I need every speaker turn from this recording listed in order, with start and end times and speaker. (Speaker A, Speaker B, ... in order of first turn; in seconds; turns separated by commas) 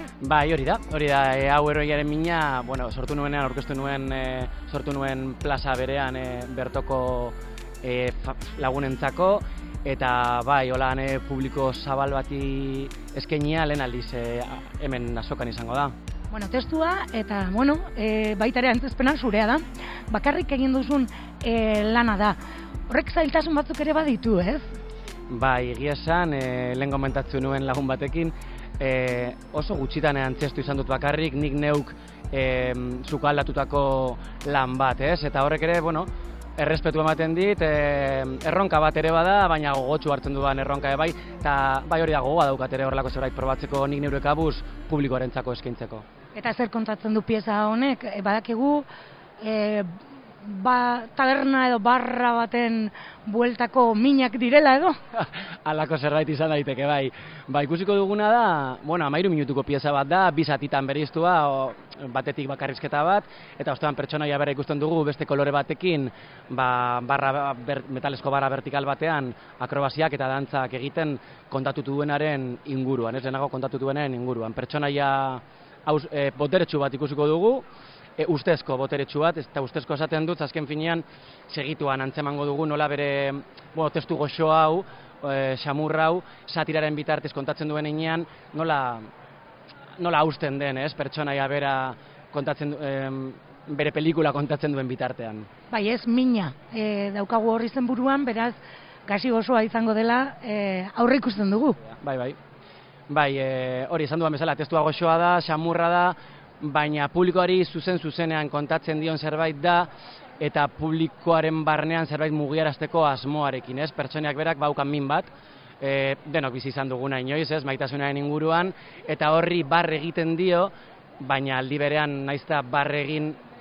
Speaker A: 0.2-15.9, Speaker B: 16.3-22.4, Speaker B: 22.9-24.7, Speaker A: 25.3-46.0, Speaker B: 46.3-48.9, Speaker B: 49.4-49.9, Speaker B: 50.4-54.9, Speaker A: 55.1-77.6, Speaker A: 78.2-89.1, Speaker A: 90.0-95.5, Speaker B: 95.7-101.8, Speaker A: 102.0-102.4, Speaker A: 103.1-109.9, Speaker A: 110.4-123.4